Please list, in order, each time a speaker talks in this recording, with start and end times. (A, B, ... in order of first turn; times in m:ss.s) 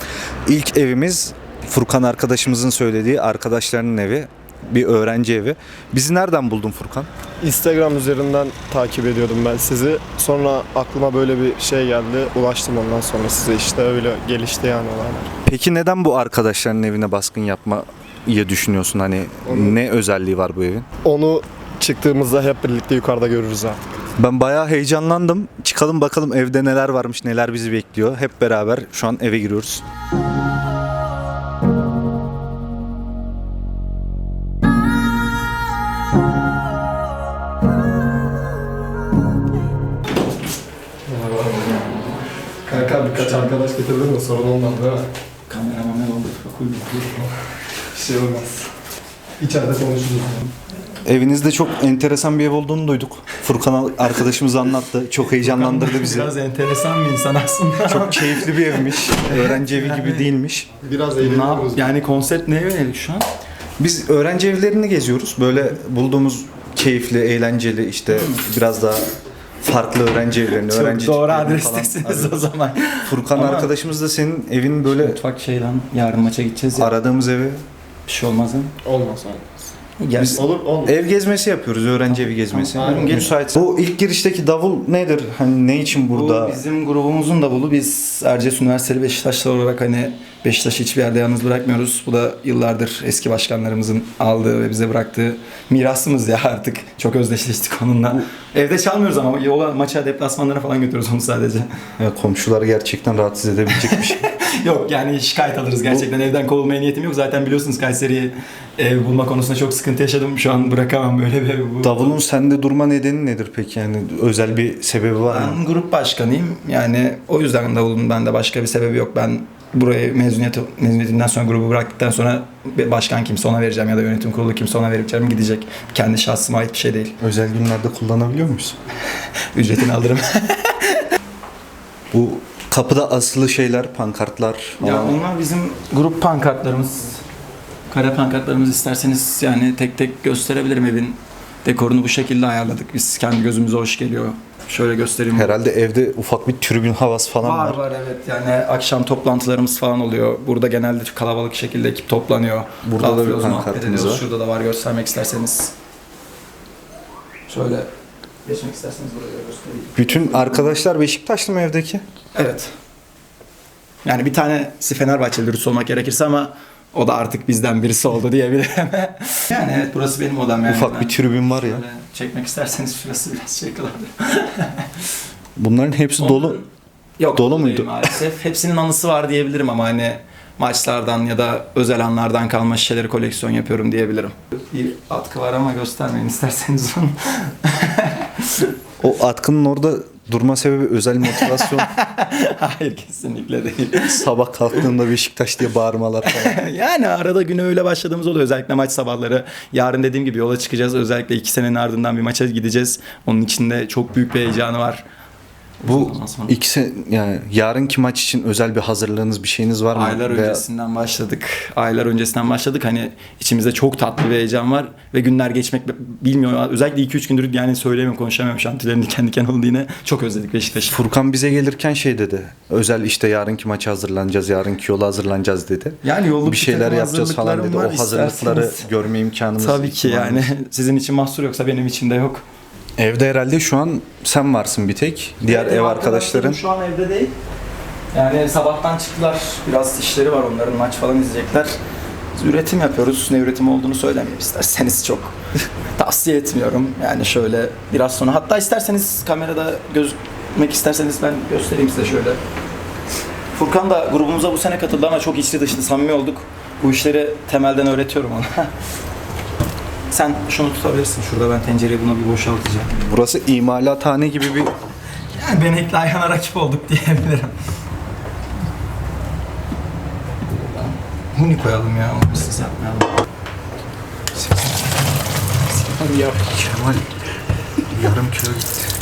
0:00.5-0:07.1 A
0:07.4-0:15.3 B
0:15.4-0:20.9 A
0:19.4-0:19.8 B
0:21.0-0:23.8 B
0:24.2-0:29.8 A
0:41.1-0:41.4 B
0:41.4-0:43.5 C
0:42.7-0:45.0 B
0:45.5-0:47.3 C
0:47.9-0:48.7 B
0:49.4-0:50.5 B
0:51.0-0:56.3 A
0:55.2-1:00.3 C
0:57.9-1:00.7 A
1:00.8-1:01.8 B
1:01.2-1:03.3 C
1:03.8-1:09.1 A
1:08.1-1:08.4 C
1:09.6-1:12.5 A
1:10.6-1:13.8 C
1:13.1-1:15.2 A
1:14.9-1:17.0 C
1:16.8-1:17.6 A
1:18.1-1:18.8 C
1:18.8-1:19.5 B
1:20.0-1:20.4 C
1:20.2-1:26.6 A
1:20.3-1:21.0 B
1:22.1-1:23.5 C
1:22.8-1:23.3 B
1:26.0-1:41.7 C
1:42.0-1:44.3 A
1:43.7-1:52.2 C
1:51.8-1:55.6 A
1:55.3-2:07.2 C
2:07.2-2:08.8 A
2:09.1-2:11.1 C
2:12.1-2:15.2 A
2:14.8-2:17.2 C
2:17.9-2:25.6 C
2:25.3-2:27.8 A
2:27.4-2:35.7 C
2:32.8-2:34.3 A
2:37.5-2:37.9 C
2:38.4-2:40.8 C
2:40.0-2:42.0 A
2:42.4-2:42.7 C
2:44.0-2:55.2 C
2:50.6-2:51.8 A
2:55.6-2:56.6 A
2:56.2-2:56.7 C
2:57.2-3:08.7 C
2:57.3-2:58.1 A
3:09.0-3:11.9 A
3:11.2-3:14.9 C
3:14.0-3:16.6 A
3:16.2-3:25.0 C
3:25.8-3:26.6 C
3:25.9-3:30.6 A
3:29.9-3:41.0 C
3:40.9-3:50.5 A
3:46.0-3:48.9 C
3:49.6-3:52.4 C
3:53.0-3:56.6 A
3:55.4-3:57.3 C
3:58.1-4:01.8 C
4:02.4-4:05.4 C
4:06.0-4:12.4 C
4:13.5-4:18.7 C
4:20.1-4:23.0 C
4:23.0-4:24.7 A
4:25.3-4:27.6 C
4:30.5-4:33.2 C
4:34.5-4:35.0 C
4:35.7-4:36.6 C
4:36.5-4:37.1 A
4:37.9-4:38.8 A